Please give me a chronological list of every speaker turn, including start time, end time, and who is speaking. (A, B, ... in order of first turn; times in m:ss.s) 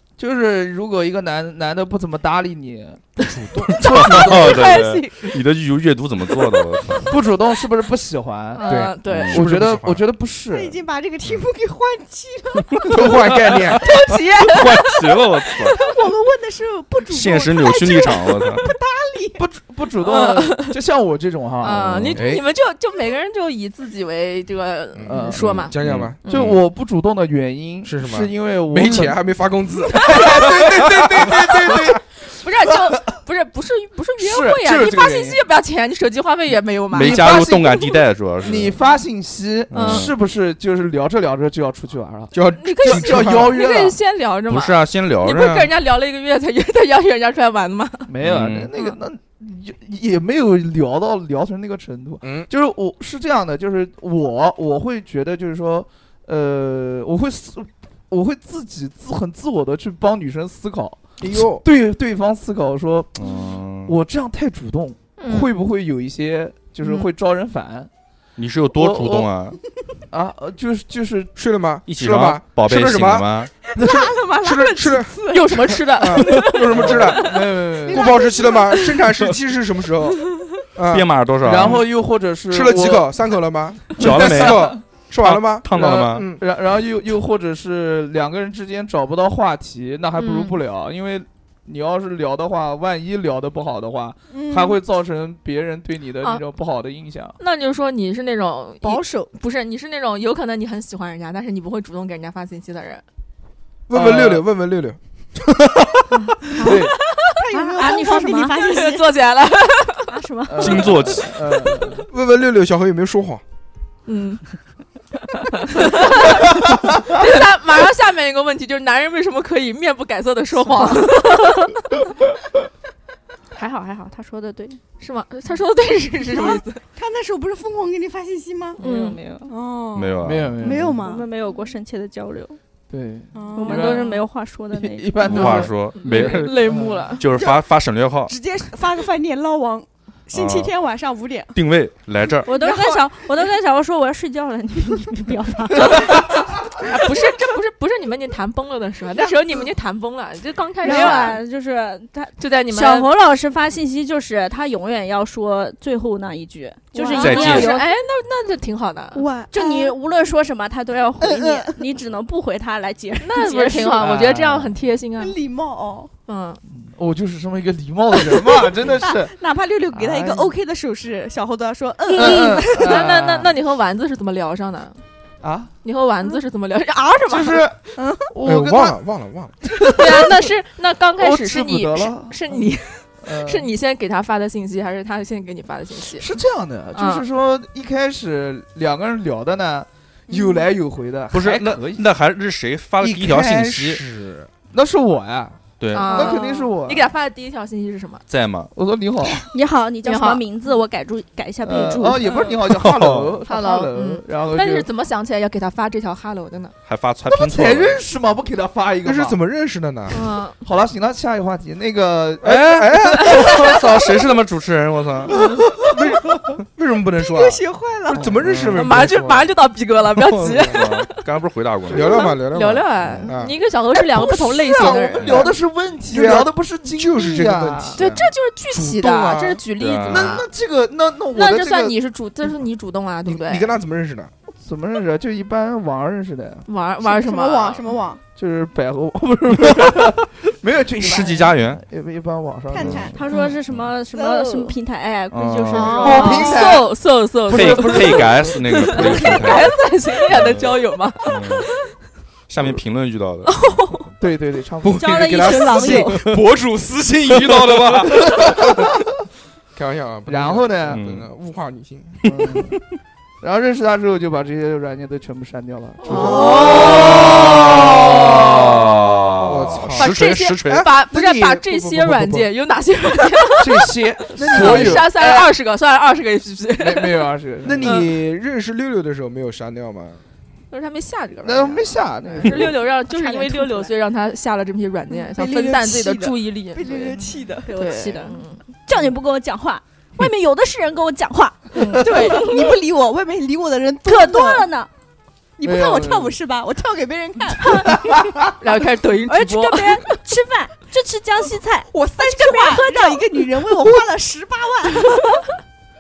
0:00.2-0:04.9 A
0:03.2-0:04.4 B
0:03.8-0:07.2 C
0:07.1-0:08.7 A
0:08.6-0:09.4 D
0:08.6-0:10.0 B
0:09.1-0:09.5 C
0:09.3-0:10.8 A
0:10.5-0:19.4 E
0:12.9-0:13.8 B
0:13.9-0:14.6 D
0:14.4-0:15.8 C
0:17.1-0:18.7 C
0:19.4-0:22.2 A
0:20.0-0:20.7 D
0:21.6-0:26.5 D
0:22.1-0:22.4 B
0:25.0-0:26.2 B
0:25.1-0:25.5 A
0:25.8-0:26.6 C
0:26.3-0:29.2 A
0:27.8-0:32.0 B
0:29.9-0:32.0 A
0:32.3-0:37.9 D
0:32.7-0:32.9 A
0:34.2-0:35.4 A
0:36.9-0:38.8 C
0:36.9-0:37.8 A
0:38.4-0:44.0 A
0:39.7-0:40.1 C
0:39.7-0:40.1 D
0:42.3-0:43.7 B
0:42.6-0:48.1 D
0:44.5-0:45.7 C
0:48.1-1:03.3 A
0:48.2-0:48.7 C
0:52.2-0:52.5 B
1:01.2-1:01.6 B
1:03.2-1:04.0 C
1:03.8-1:07.9 A
1:05.2-1:05.5 D
1:08.4-1:09.6 C
1:08.7-1:09.3 A
1:10.1-1:11.3 A
1:11.4-1:13.3 B
1:11.9-1:13.5 C
1:13.7-1:15.6 E
1:14.4-1:21.8 B
1:15.3-1:16.7 D
1:16.7-1:18.1 A
1:17.9-1:19.0 E
1:20.9-1:21.8 C
1:21.4-1:23.2 A
1:22.5-1:26.4 B
1:24.0-1:26.3 C
1:24.0-1:24.6 A
1:25.7-1:37.4 A
1:30.2-1:30.6 D
1:34.3-1:34.8 E
1:37.4-1:43.0 D
1:38.8-1:39.3 E
1:43.9-1:45.0 B
1:43.9-1:44.5 A
1:46.1-1:46.8 F
1:46.6-1:46.9 A
1:47.4-1:49.2 E
1:47.5-1:48.9 F
1:48.6-1:50.1 D
1:50.1-1:50.9 F
1:50.5-1:52.1 A
1:50.6-1:51.4 C
1:52.1-1:53.4 B
1:54.1-1:54.4 D
1:55.5-1:56.5 D
1:57.0-2:01.7 D
2:03.5-2:04.8 F
2:05.0-2:06.8 D
2:06.3-2:08.8 E
2:08.8-2:09.2 D
2:08.8-2:09.5 F
2:09.5-2:11.3 E
2:09.9-2:10.6 C
2:10.2-2:11.0 A
2:11.0-2:12.6 F
2:12.9-2:14.0 A
2:13.3-2:14.1 E
2:13.6-2:15.6 F
2:14.7-2:15.9 A
2:15.2-2:18.3 C
2:15.4-2:17.2 D
2:16.6-2:17.0 A
2:17.2-2:17.7 E
2:18.3-2:21.6 E
2:20.3-2:20.7 C
2:21.5-2:22.5 C
2:22.5-2:26.2 F
2:22.6-2:23.1 E
2:26.8-2:31.4 D
2:29.1-2:29.7 E
2:30.8-2:31.4 E
2:30.8-2:37.8 F
2:32.4-2:33.1 D
2:36.9-2:37.8 E
2:37.0-2:39.2 D
2:37.2-2:37.7 C
2:39.1-2:40.0 E
2:39.5-2:44.1 F
2:41.2-2:41.9 E
2:43.2-2:45.4 D
2:44.0-2:44.8 A
2:45.2-2:46.1 E
2:46.3-2:46.6 D
2:46.7-2:49.3 A
2:48.3-2:53.0 E
2:49.9-2:50.5 A
2:52.1-2:55.0 D
2:52.2-2:53.5 A
2:55.4-2:55.7 A
2:55.8-2:57.7 D
2:57.3-2:59.0 A
2:58.0-2:58.3 E
2:58.4-2:59.6 B
2:59.8-3:00.4 A
2:59.9-3:06.3 D
3:01.2-3:02.7 A
3:03.2-3:03.7 A
3:06.1-3:12.1 A
3:07.0-3:07.2 D
3:11.3-3:14.0 C
3:13.0-3:14.5 B
3:14.7-3:17.1 A
3:15.8-3:16.4 C
3:15.9-3:18.2 D
3:18.3-3:18.7 C
3:18.8-3:19.3 A
3:19.5-3:22.3 F
3:20.0-3:20.4 D
3:21.6-3:24.9 A
3:22.8-3:23.3 C
3:23.5-3:26.7 D
3:26.9-3:28.0 C
3:27.3-3:29.4 A
3:29.0-3:30.3 B
3:30.1-3:30.6 D
3:30.6-3:32.9 A
3:32.4-3:33.6 B
3:32.4-3:35.4 C
3:35.4-3:36.0 A
3:35.9-3:39.5 B
3:37.2-3:38.4 E
3:38.1-3:38.8 A
3:38.5-3:38.8 C
3:38.7-3:41.2 D
3:40.3-3:42.3 C
3:40.4-3:40.8 B
3:41.9-3:43.6 B
3:41.9-3:45.5 D
3:44.0-3:48.0 A
3:44.8-3:45.5 B
3:45.2-3:45.5 C
3:46.1-3:49.6 B
3:48.0-3:50.5 D
3:49.8-3:50.4 C
3:50.1-3:52.0 A
3:51.3-3:53.8 D
3:53.3-3:54.3 B
3:54.5-3:56.7 A
3:56.7-3:57.8 D
3:57.0-3:58.2 E
3:58.4-4:03.2 A
4:01.0-4:01.8 C
4:02.7-4:03.2 E
4:02.8-4:03.1 C
4:03.2-4:06.6 F
4:04.1-4:04.8 E
4:05.3-4:06.0 C
4:05.8-4:11.8 D
4:05.8-4:06.8 E
4:06.0-4:06.9 A
4:07.5-4:09.8 C
4:07.5-4:08.4 A
4:09.0-4:09.3 A
4:10.3-4:11.7 C
4:12.5-4:13.5 C
4:13.5-4:14.1 D
4:14.2-4:15.7 A
4:14.8-4:18.9 B
4:15.0-4:16.2 F
4:15.9-4:16.4 C
4:17.3-4:18.2 C
4:19.7-4:22.2 B
4:20.3-4:21.0 A
4:20.9-4:21.3 C
4:22.2-4:22.8 A
4:23.4-4:28.7 A
4:26.0-4:27.3 D
4:26.1-4:26.5 B
4:26.2-4:27.2 E
4:26.8-4:30.9 C
4:29.4-4:32.5 B
4:30.0-4:37.3 D
4:33.6-4:35.5 A
4:34.4-4:35.1 B
4:36.8-4:38.0 A
4:37.6-4:40.2 B
4:37.8-4:38.1 D
4:40.7-4:47.2 D
4:41.4-4:42.8 A
4:43.0-4:43.9 E
4:45.1-4:47.7 E
4:47.6-4:52.8 F
4:47.7-4:48.6 D
4:51.8-4:52.4 D
4:51.9-4:54.7 E
4:54.0-4:54.9 F
4:55.6-4:58.0 E
4:55.6-4:56.4 A
4:58.0-4:58.3 A
4:58.6-5:00.0 D
4:59.3-5:03.5 F
5:01.9-5:05.2 E